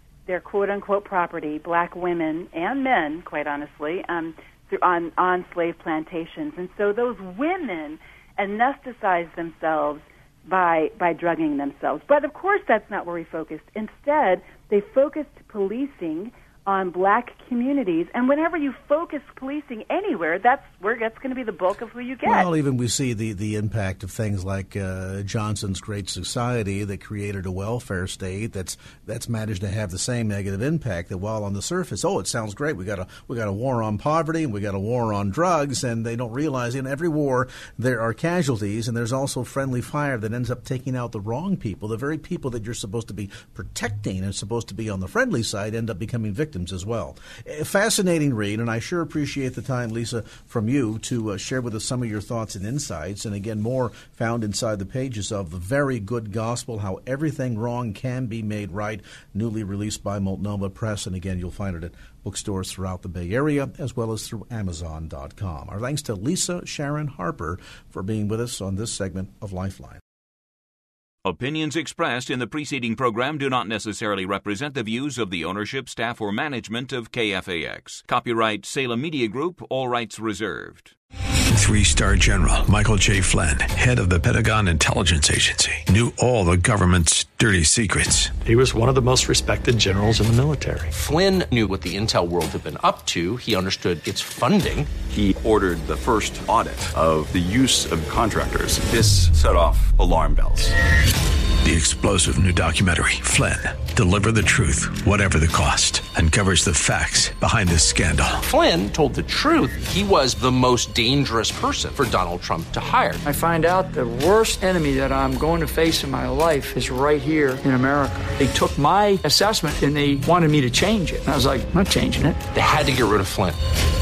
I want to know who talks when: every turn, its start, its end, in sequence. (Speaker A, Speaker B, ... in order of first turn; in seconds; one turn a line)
Speaker A: 0.3-22.5
Speaker B: 22.2-70.0
Speaker C: 71.2-80.9
Speaker D: 81.5-88.3
Speaker E: 88.4-90.9
Speaker F: 90.9-94.9
Speaker G: 95.0-100.7
Speaker D: 101.6-108.4
Speaker F: 108.4-113.2
Speaker H: 113.2-122.4
Speaker F: 122.5-123.6